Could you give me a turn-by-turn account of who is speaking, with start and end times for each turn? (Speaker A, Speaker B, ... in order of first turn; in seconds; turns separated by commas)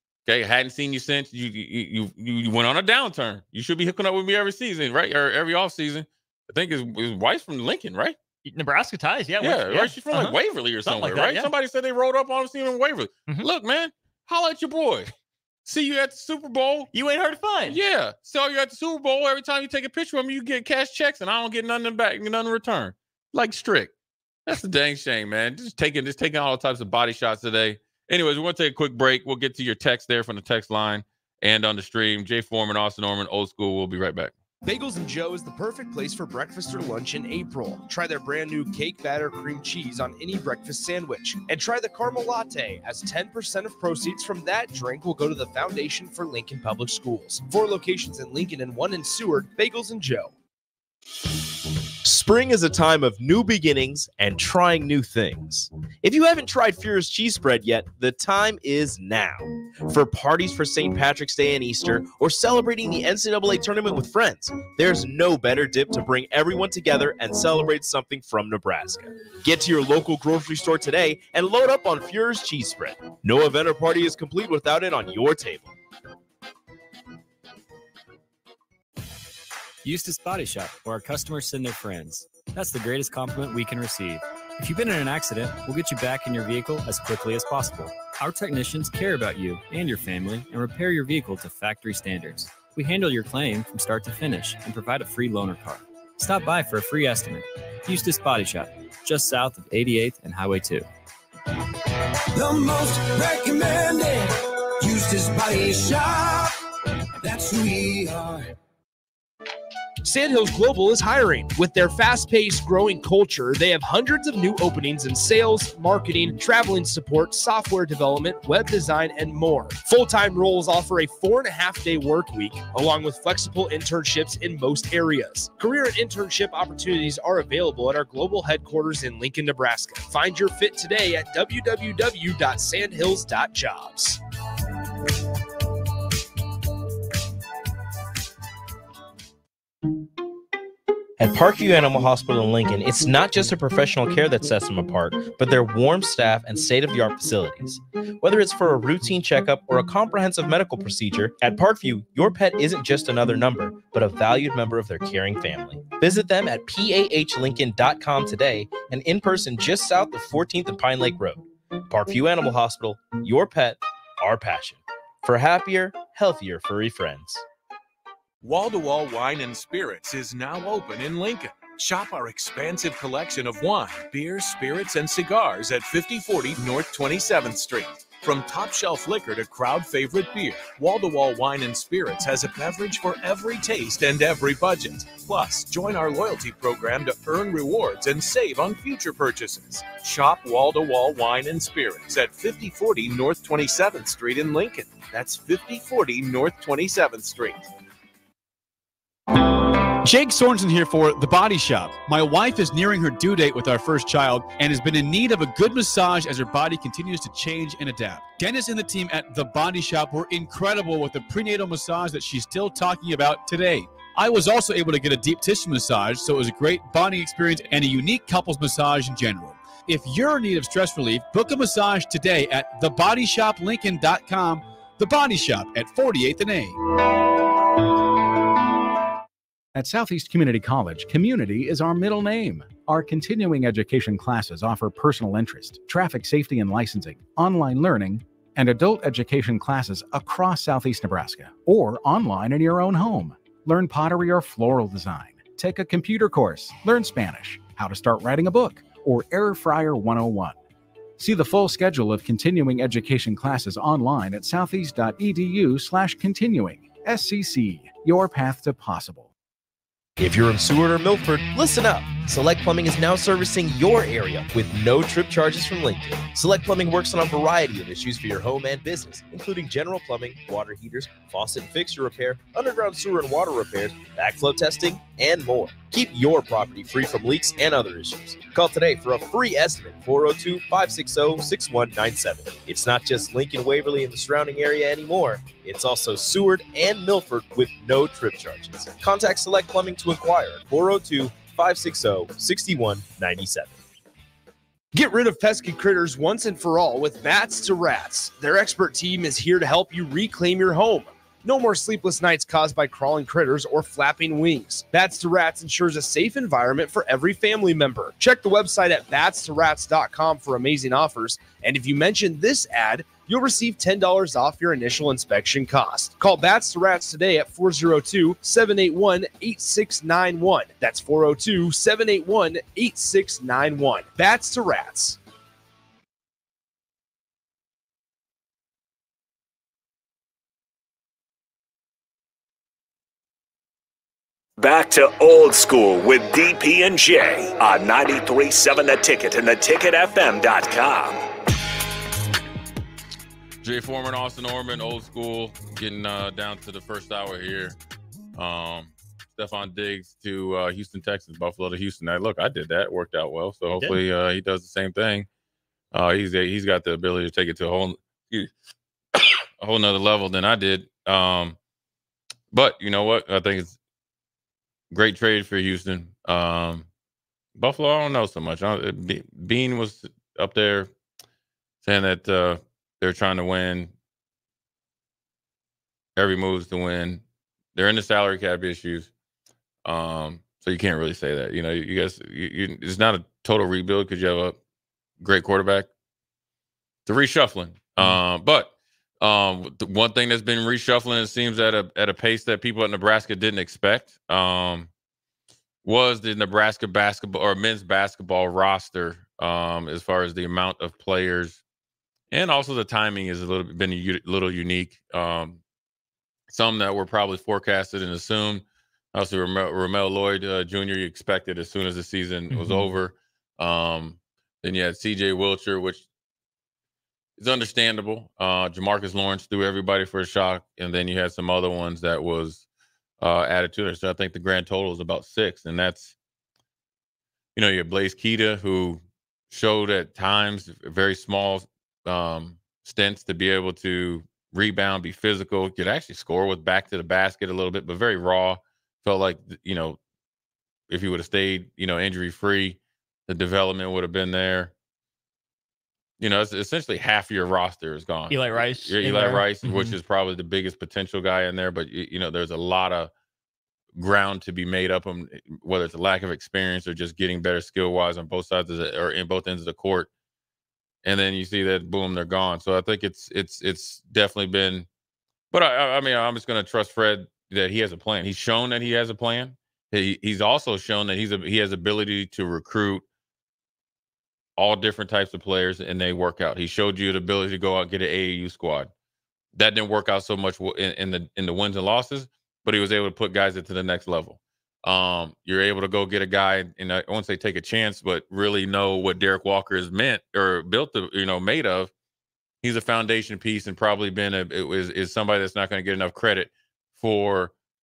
Speaker A: 0.2-8.2, Speaker B: 8.4-11.5, Speaker A: 9.4-15.1, Speaker A: 15.7-16.9, Speaker B: 16.9-17.8, Speaker A: 17.7-23.9, Speaker A: 24.5-34.3, Speaker C: 34.6-50.2, Speaker D: 52.0-75.7, Speaker E: 79.8-100.9, Speaker F: 102.3-106.5, Speaker F: 107.2-108.5, Speaker C: 110.0-134.2, Speaker D: 141.2-167.4, Speaker G: 168.4-197.6, Speaker H: 200.0-226.8, Speaker I: 229.8-250.6, Speaker I: 251.2-259.3, Speaker D: 260.2-293.8, Speaker C: 294.9-325.2, Speaker J: 334.6-341.2, Speaker A: 343.6-347.8, Speaker A: 348.4-355.3, Speaker A: 355.9-358.5, Speaker A: 359.2-361.6, Speaker A: 362.5-363.8, Speaker A: 364.9-366.9, Speaker A: 367.6-370.9, Speaker A: 371.8-373.9, Speaker A: 376.2-377.2, Speaker A: 377.8-379.1, Speaker A: 379.9-384.6, Speaker A: 385.2-385.9, Speaker A: 387.1-394.9, Speaker A: 395.8-401.6, Speaker A: 402.3-405.6, Speaker A: 406.5-416.1, Speaker B: 412.5-412.9, Speaker A: 417.4-422.6, Speaker A: 423.2-426.1, Speaker A: 427.6-440.0, Speaker A: 440.9-444.7, Speaker A: 446.2-453.1, Speaker B: 448.3-449.9, Speaker A: 453.9-460.1, Speaker A: 461.0-464.9, Speaker A: 465.5-473.1, Speaker A: 474.6-478.9, Speaker A: 479.5-491.9, Speaker A: 492.6-497.5